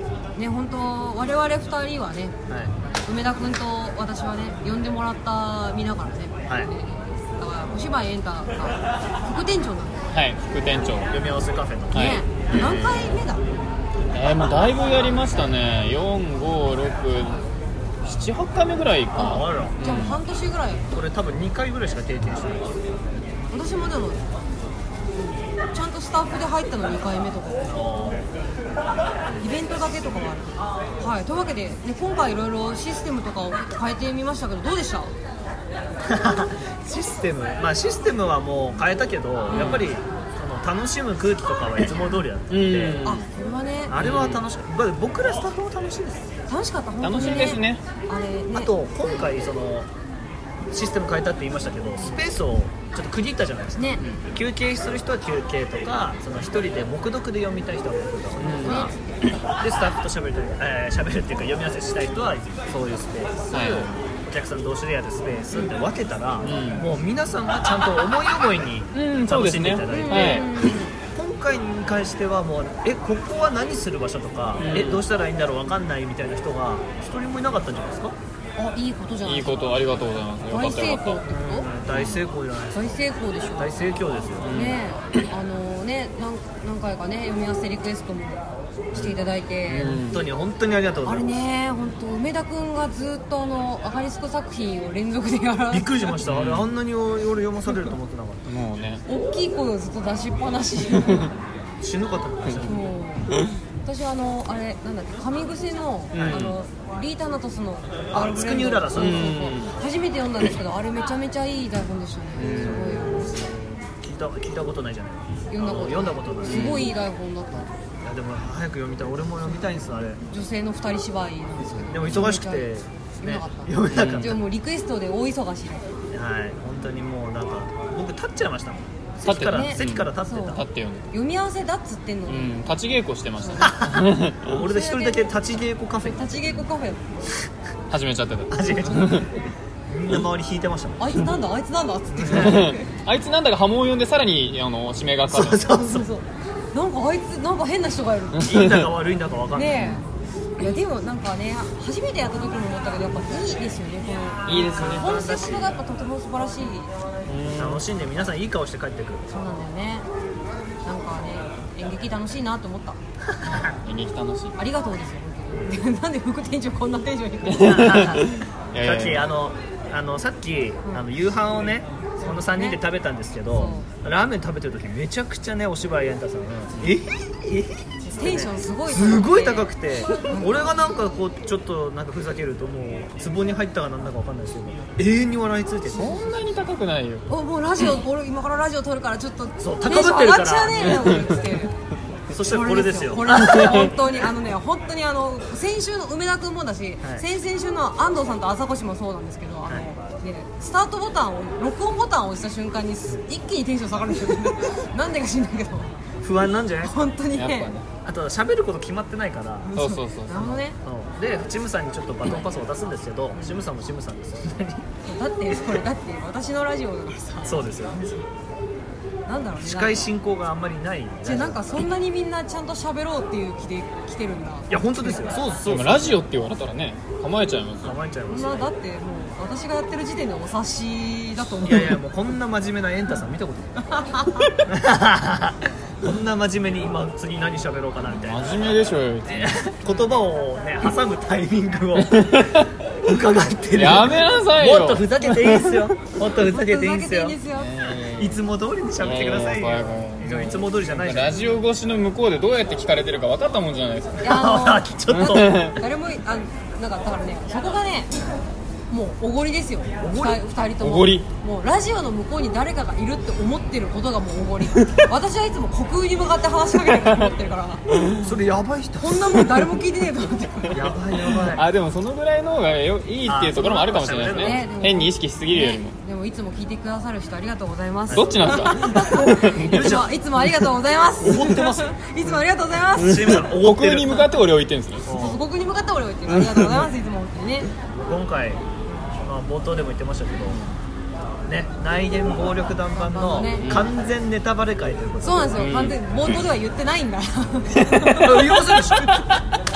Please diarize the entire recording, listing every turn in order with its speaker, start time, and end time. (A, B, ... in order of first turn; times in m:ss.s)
0:00.4-0:02.4 A
0:02.5-0:02.7 B
0:03.0-0:10.0 A
0:10.1-0:11.2 C
0:11.1-0:12.8 B
0:11.9-0:13.0 C
0:11.9-0:13.4 A
0:14.1-0:17.4 C
0:18.0-0:20.2 C
0:19.2-0:19.8 B
0:19.2-0:20.9 A
0:20.9-0:23.2 B
0:23.5-0:24.2 A
0:25.2-0:27.8 A
0:27.7-0:28.3 B
0:29.4-0:35.1 A
0:36.0-0:43.1 B
0:39.5-0:39.8 A
0:39.6-0:39.8 C
0:42.5-0:43.2 C
0:43.0-0:44.0 A
0:43.9-0:46.3 B
0:44.0-0:44.4 C
0:46.5-0:48.7 A
0:47.0-0:47.8 C
0:48.5-0:49.9 B
0:50.7-0:58.9 B
0:53.8-0:54.0 A
0:58.4-0:58.9 C
0:58.5-0:59.0 A
0:59.6-1:10.5 B
1:03.5-1:04.0 C
1:06.4-1:06.9 C
1:08.9-1:10.5 C
1:09.9-1:11.0 A
1:11.1-1:18.2 B
1:14.6-1:15.0 C
1:18.6-1:19.8 A
1:19.2-1:21.2 C
1:20.5-1:21.7 A
1:21.2-1:23.1 B
1:21.9-1:22.2 C
1:22.7-1:23.9 A
1:23.6-1:24.6 B
1:24.4-1:24.8 C
1:24.5-1:30.0 A
1:28.9-1:29.2 B
1:29.7-1:30.3 C
1:29.8-1:31.4 B
1:31.0-1:35.9 A
1:35.7-1:38.6 B
1:36.2-1:36.7 C
1:38.5-1:39.0 C
1:39.1-1:41.3 A
1:41.8-1:42.8 B
1:42.6-1:53.5 A
1:46.1-1:46.6 C
1:46.1-1:46.6 B
1:48.1-1:49.4 B
1:49.0-1:49.7 C
1:52.4-1:53.2 C
1:52.4-1:56.9 B
1:55.5-1:57.7 A
1:56.5-1:56.9 C
1:58.0-2:00.2 B
2:00.3-2:05.9 A
2:01.8-2:04.4 B
2:03.9-2:04.3 C
2:06.1-2:10.7 B
2:09.2-2:12.7 A
2:09.2-2:11.1 C
2:12.3-2:14.6 C
2:13.4-2:13.9 A
2:13.6-2:16.6 B
2:14.6-2:15.3 A
2:16.0-2:17.1 A
2:17.9-2:19.3 C
2:18.5-2:21.2 B
2:21.0-2:22.9 A
2:22.1-2:22.7 B
2:22.3-2:25.7 C
2:25.3-2:26.2 B
2:26.7-2:28.7 A
2:28.4-2:30.0 B
2:28.5-2:28.8 C
2:29.5-2:30.1 A
2:30.6-2:36.9 A
2:34.5-2:35.1 C
2:34.7-2:35.8 B
2:37.3-2:37.8 C
2:37.4-2:39.3 B
2:39.3-2:40.1 A
2:40.8-2:43.0 A
2:43.4-2:43.7 B
2:43.8-2:44.6 C
2:44.6-2:48.0 A
2:47.5-2:49.3 C
2:47.6-3:06.2 B
2:52.2-2:52.8 A
2:53.5-2:53.9 A
2:58.0-3:00.7 A
3:05.9-3:07.3 C
3:07.3-3:11.7 A
3:09.6-3:11.3 B
3:10.9-3:11.2 C
3:12.3-3:13.9 B
3:12.5-3:26.0 A
3:13.4-3:13.9 C
3:26.2-3:27.1 B
3:26.8-3:27.7 A
3:27.3-3:27.9 C
3:28.0-3:29.7 B
3:29.6-3:30.8 A
3:29.8-3:30.6 C
3:30.8-3:34.9 B
3:33.3-3:33.6 A
3:35.0-3:37.7 A
3:37.4-3:38.2 B
3:39.3-3:40.1 A
3:39.6-3:41.8 B
3:41.2-3:45.1 A
3:44.7-3:46.2 B
3:45.6-3:48.0 C
3:47.8-3:48.7 B
3:48.3-3:52.0 A
3:51.6-3:58.5 B
3:54.0-3:54.5 A
3:58.2-3:59.6 C
3:59.3-4:07.4 B
4:02.0-4:02.8 C
4:03.8-4:05.9 C
4:06.4-4:07.7 A
4:07.5-4:08.4 C
4:08.2-4:11.6 B
4:09.0-4:14.3 C
4:14.2-4:18.1 A
4:14.2-4:15.8 B
4:15.1-4:15.8 C
4:18.9-4:27.8 A
4:20.0-4:20.4 B
4:20.8-4:21.3 C
4:28.2-4:29.5 B
4:29.0-4:30.9 A
4:30.7-4:31.7 B
4:31.4-4:36.0 C
4:33.2-4:34.6 B
4:34.2-4:43.5 A
4:38.1-4:38.9 B
4:38.1-4:40.0 C
4:39.6-4:40.4 B
4:41.2-4:41.9 B
4:42.9-4:44.3 B
4:43.0-4:45.1 C
4:45.1-4:45.4 B
4:45.1-4:47.7 A
4:46.3-4:46.8 C
4:47.9-4:48.6 B
4:48.9-4:49.1 A
4:49.2-4:50.6 B
4:51.5-4:55.7 B
4:52.9-4:53.6 A
4:53.6-4:53.9 C
4:55.2-4:59.4 A
4:55.6-4:56.0 C
4:58.1-4:59.3 B